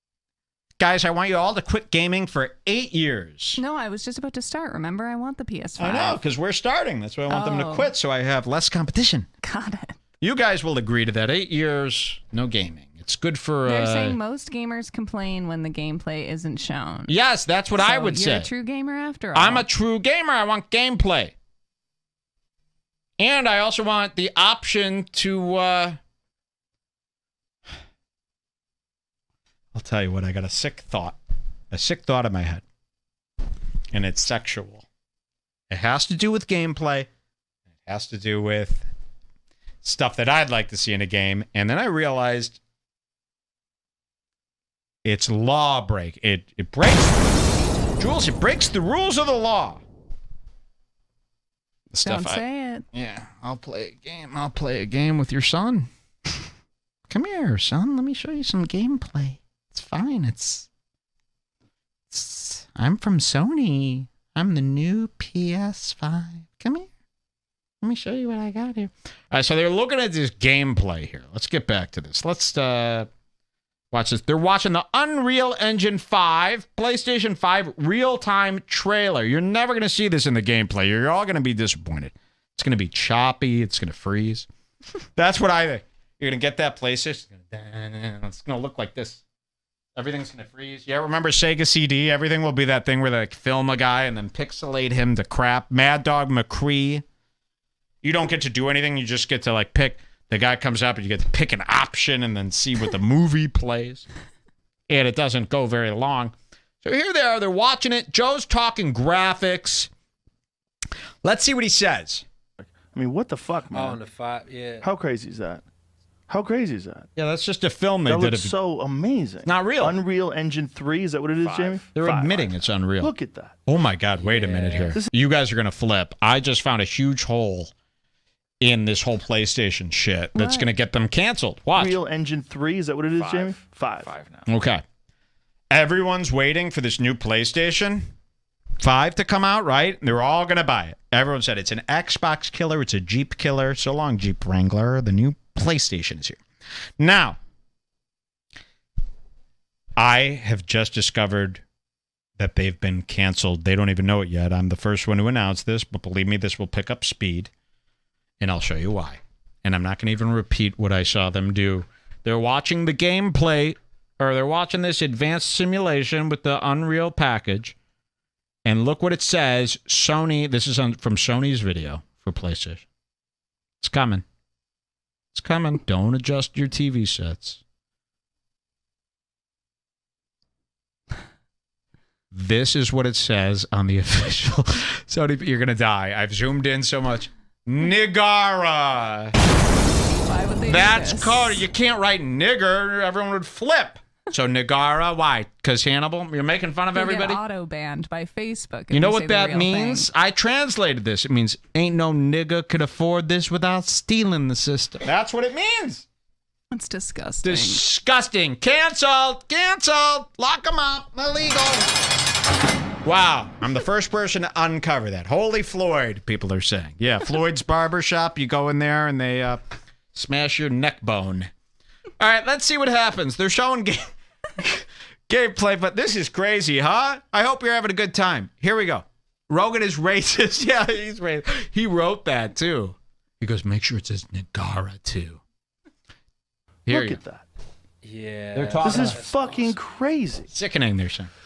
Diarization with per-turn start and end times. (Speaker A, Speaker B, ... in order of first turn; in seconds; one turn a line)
Speaker A: 0.8-3.6
Speaker B: 3.6-6.2
Speaker A: 5.8-9.3
Speaker B: 7.3-7.9
Speaker B: 9.4-10.0
Speaker A: 10.2-14.2
Speaker B: 13.6-17.1
Speaker A: 17.1-18.5
Speaker B: 17.8-19.7
Speaker A: 19.3-21.3
Speaker A: 23.2-26.0
Speaker A: 29.7-31.2
Speaker A: 31.7-32.6
Speaker A: 33.9-34.8
Speaker A: 35.7-37.1
Speaker A: 37.8-38.9
Speaker A: 39.8-42.6
Speaker A: 45.0-47.2
Speaker A: 48.0-49.8
Speaker A: 51.9-52.4
Speaker B: 52.0-52.9
Speaker A: 52.9-55.9
Speaker A: 57.1-60.7
Speaker A: 62.1-66.9
Speaker A: 67.8-73.1
Speaker A: 73.9-84.5
Speaker A: 85.2-89.2
Speaker A: 90.0-97.0
Speaker A: 98.0-104.0
Speaker A: 104.9-109.9
Speaker A: 111.2-112.2
Speaker C: 112.6-114.0
Speaker D: 113.7-114.9
Speaker C: 114.8-115.6
Speaker C: 116.3-117.1
Speaker A: 117.2-118.5
Speaker C: 118.0-122.5
Speaker A: 119.5-120.0
Speaker E: 121.4-122.5
Speaker A: 121.9-123.1
Speaker C: 123.0-123.5
Speaker A: 123.7-127.7
Speaker D: 124.2-125.0
Speaker A: 128.6-132.0
Speaker B: 130.3-130.7
Speaker C: 131.7-134.1
Speaker E: 133.1-134.5
Speaker A: 134.5-134.8
Speaker A: 135.7-138.1
Speaker A: 138.8-146.4
Speaker A: 147.0-147.4
Speaker A: 150.0-151.6
Speaker A: 152.4-157.5
Speaker A: 158.4-167.8
Speaker A: 168.6-172.8
Speaker A: 173.8-174.2
Speaker A: 175.3-177.6
Speaker A: 182.3-189.3
Speaker B: 190.3-191.6
Speaker A: 190.7-197.4
Speaker B: 196.9-200.1
Speaker A: 198.9-206.1
Speaker B: 206.7-207.8
Speaker A: 207.4-211.9
Speaker A: 213.0-219.6
Speaker A: 220.1-221.5
Speaker A: 222.2-235.4
Speaker A: 236.8-237.2
Speaker C: 236.9-237.4
Speaker D: 238.0-239.7
Speaker A: 238.5-239.2
Speaker C: 238.8-240.5
Speaker A: 240.5-241.3